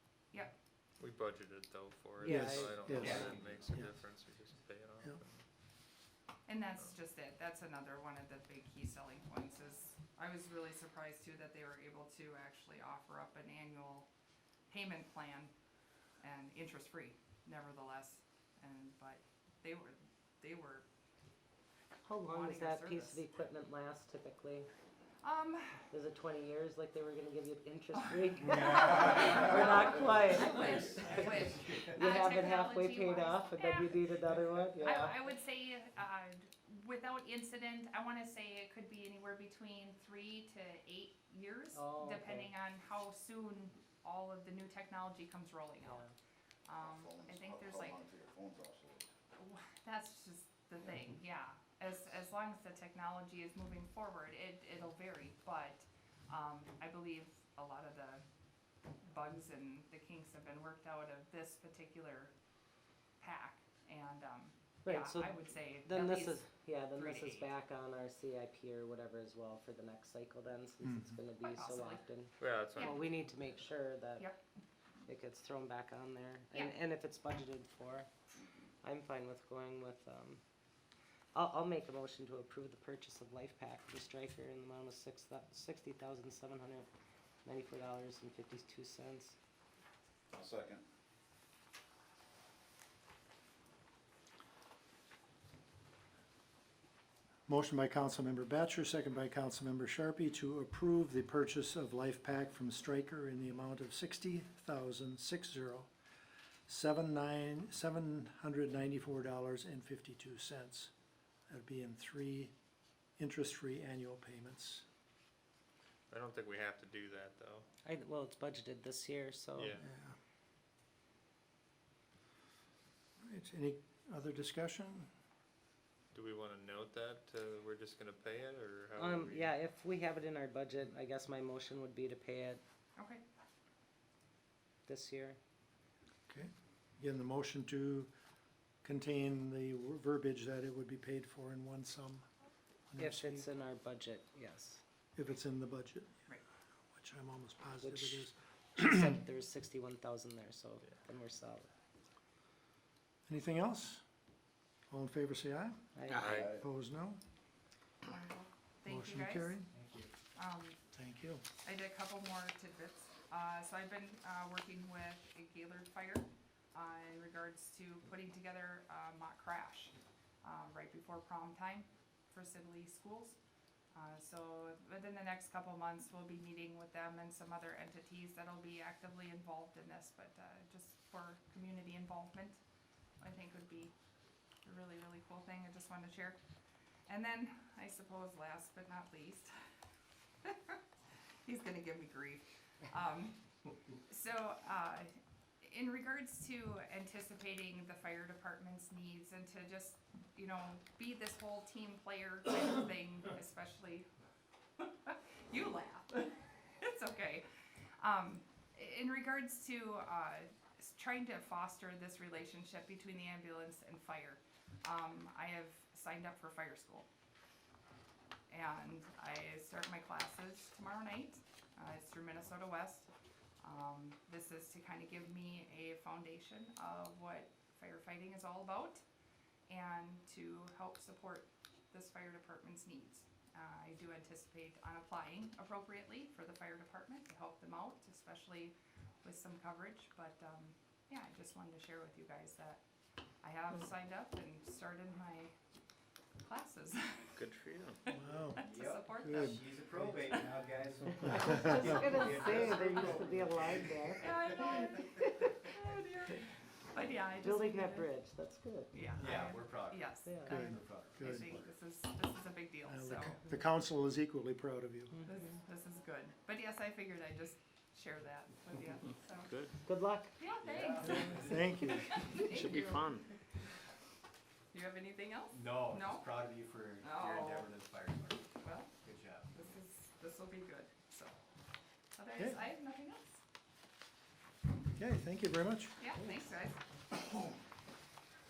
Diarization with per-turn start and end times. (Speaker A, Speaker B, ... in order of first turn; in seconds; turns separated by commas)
Speaker A: 1.0-5.4, Speaker B: 2.2-3.4, Speaker C: 2.2-3.9, Speaker D: 2.9-3.7, Speaker E: 6.5-14.1, Speaker E: 14.7-15.5, Speaker E: 16.2-20.9, Speaker B: 22.1-24.7, Speaker E: 22.3-23.3, Speaker E: 25.2-25.9, Speaker B: 25.9-35.3, Speaker E: 27.9-34.0, Speaker D: 28.4-29.8, Speaker F: 30.1-30.7, Speaker D: 30.3-32.0, Speaker E: 34.8-46.1, Speaker B: 41.7-42.5, Speaker B: 45.8-46.1, Speaker E: 46.7-48.0, Speaker F: 46.8-49.1, Speaker E: 49.4-58.2, Speaker E: 59.0-62.3, Speaker E: 63.2-67.5, Speaker B: 64.8-74.3, Speaker C: 70.8-71.2, Speaker E: 71.4-72.0, Speaker A: 72.4-73.0, Speaker B: 75.1-78.1, Speaker B: 78.8-80.4, Speaker B: 81.3-86.9, Speaker B: 87.5-89.4, Speaker F: 90.3-90.8, Speaker C: 97.5-105.9, Speaker C: 106.7-110.9, Speaker C: 111.5-112.5, Speaker C: 113.2-114.8, Speaker A: 116.1-117.7, Speaker B: 117.8-119.8, Speaker A: 119.6-119.8, Speaker C: 119.8-120.2, Speaker C: 123.2-125.1, Speaker A: 126.1-129.5, Speaker B: 129.0-132.6, Speaker E: 133.0-133.2, Speaker B: 134.9-135.4, Speaker C: 136.3-138.1, Speaker C: 138.8-142.3, Speaker C: 142.9-143.4, Speaker B: 143.0-144.8, Speaker C: 145.2-146.2, Speaker C: 146.9-149.1, Speaker B: 147.8-151.7, Speaker C: 153.3-154.0, Speaker C: 154.9-155.9, Speaker B: 156.0-156.4, Speaker A: 156.1-156.6, Speaker F: 156.3-156.6, Speaker C: 156.4-157.2, Speaker E: 158.1-159.6, Speaker C: 158.9-159.7, Speaker D: 159.7-160.1, Speaker E: 160.3-160.8, Speaker C: 160.9-161.4, Speaker E: 161.6-173.4, Speaker E: 173.9-182.6, Speaker E: 183.2-183.9, Speaker E: 184.6-186.4, Speaker E: 187.1-189.5, Speaker E: 190.4-190.8, Speaker E: 191.4-193.5, Speaker E: 194.0-204.1, Speaker E: 204.8-207.4, Speaker E: 208.0-217.1, Speaker E: 218.5-223.1, Speaker E: 223.6-229.0, Speaker E: 229.7-242.8, Speaker E: 243.4-245.5, Speaker E: 246.4-247.4, Speaker A: 247.4-248.0, Speaker E: 248.1-249.6, Speaker C: 248.1-250.2, Speaker D: 248.6-254.6, Speaker B: 251.2-255.3, Speaker C: 251.4-252.0, Speaker E: 254.2-258.1, Speaker B: 257.4-259.0, Speaker E: 258.9-263.4, Speaker D: 259.2-261.7, Speaker B: 260.2-260.6, Speaker C: 260.5-261.5, Speaker C: 262.9-265.2, Speaker B: 265.1-265.5, Speaker E: 265.3-269.5, Speaker B: 269.9-270.4, Speaker E: 270.4-273.2, Speaker D: 270.6-271.7, Speaker C: 271.4-272.2, Speaker E: 274.7-276.3, Speaker D: 275.5-278.5, Speaker E: 277.0-277.7, Speaker E: 278.6-278.9, Speaker D: 279.0-279.5, Speaker E: 279.5-281.4, Speaker E: 282.1-283.4, Speaker C: 285.0-286.0, Speaker E: 286.0-286.8